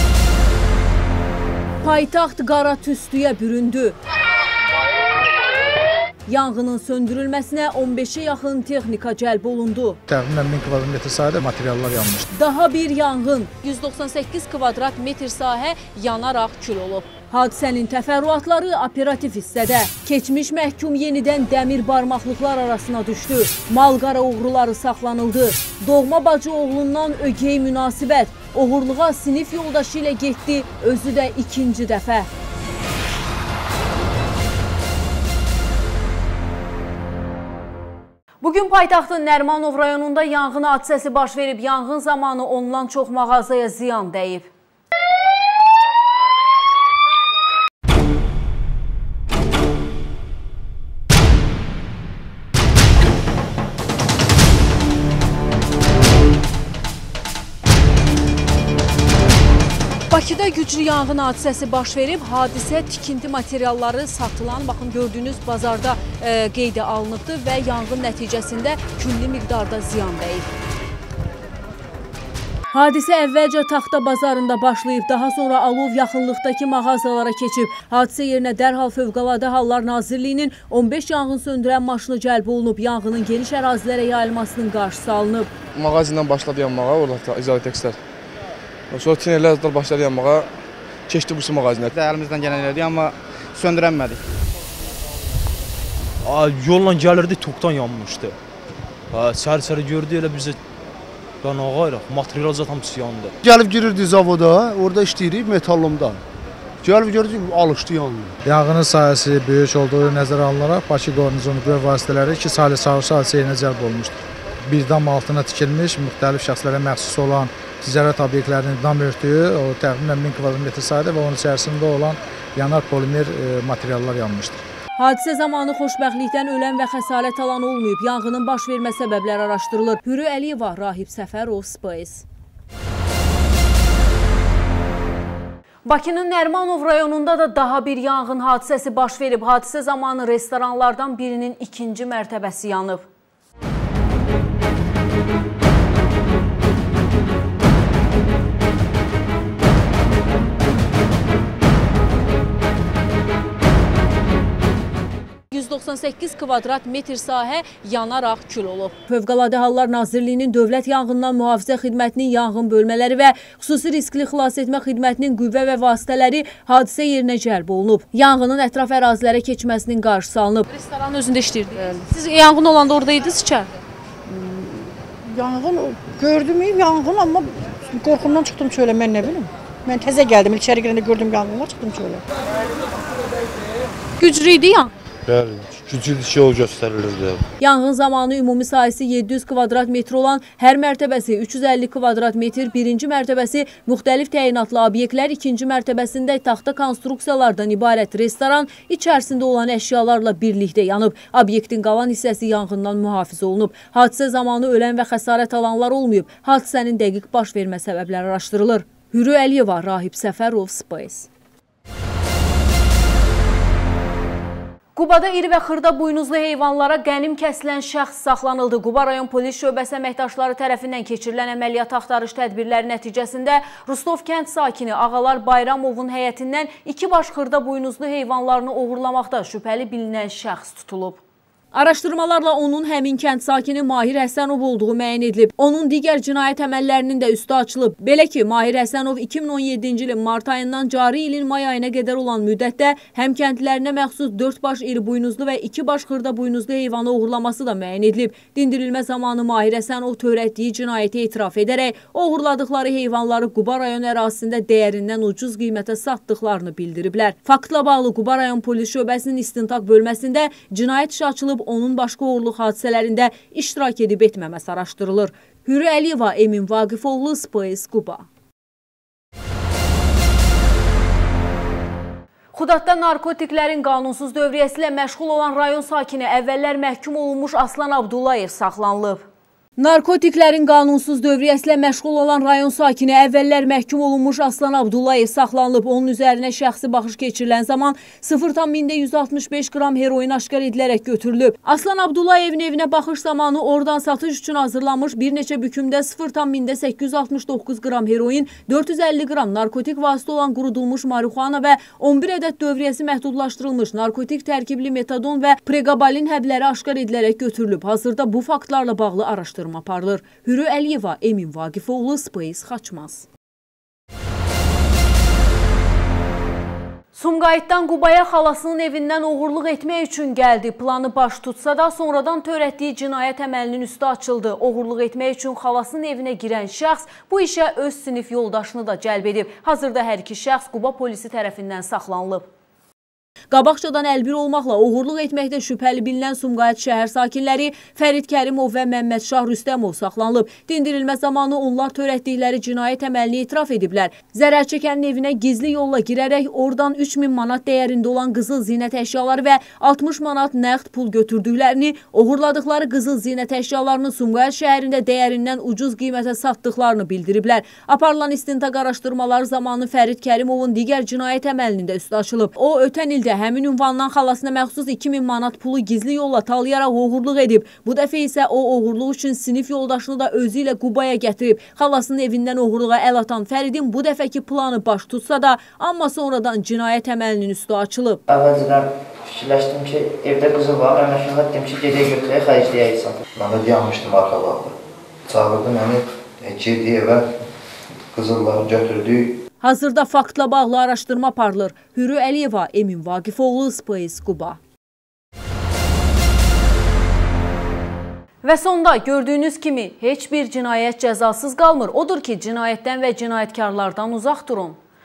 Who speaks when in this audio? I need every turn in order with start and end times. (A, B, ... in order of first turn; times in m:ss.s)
0:01.8-0:04.0 A
0:06.3-0:10.0 A
0:10.1-0:12.3 B
0:12.3-0:32.3 A
0:38.4-0:44.5 A
1:00.1-1:10.5 A
1:12.7-1:25.5 A
1:25.8-1:28.0 C
1:28.9-1:30.5 C
1:31.1-1:32.0 C
1:32.0-1:34.2 D
1:36.2-1:38.4 E
1:39.1-1:40.6 E
1:41.4-1:43.3 E
1:43.4-1:46.2 F
1:46.8-1:48.3 F
1:48.4-2:04.6 B
2:05.0-2:12.2 A
2:15.8-2:23.0 A
2:35.5-2:53.7 A
2:54.3-3:02.2 G
3:04.2-3:04.9 A
3:05.3-3:07.4 H
3:07.6-3:31.3 A
3:35.0-3:51.2 A
3:51.7-4:28.3 A
4:32.5-4:39.2 A
4:39.8-5:13.2 A
5:17.1-5:32.5 A
5:33.5-6:18.2 A
6:18.3-6:23.2 I
6:23.4-6:24.8 J
6:25.3-6:27.3 J
6:28.1-6:29.4 J
6:29.6-6:34.6 A
6:38.4-6:44.8 A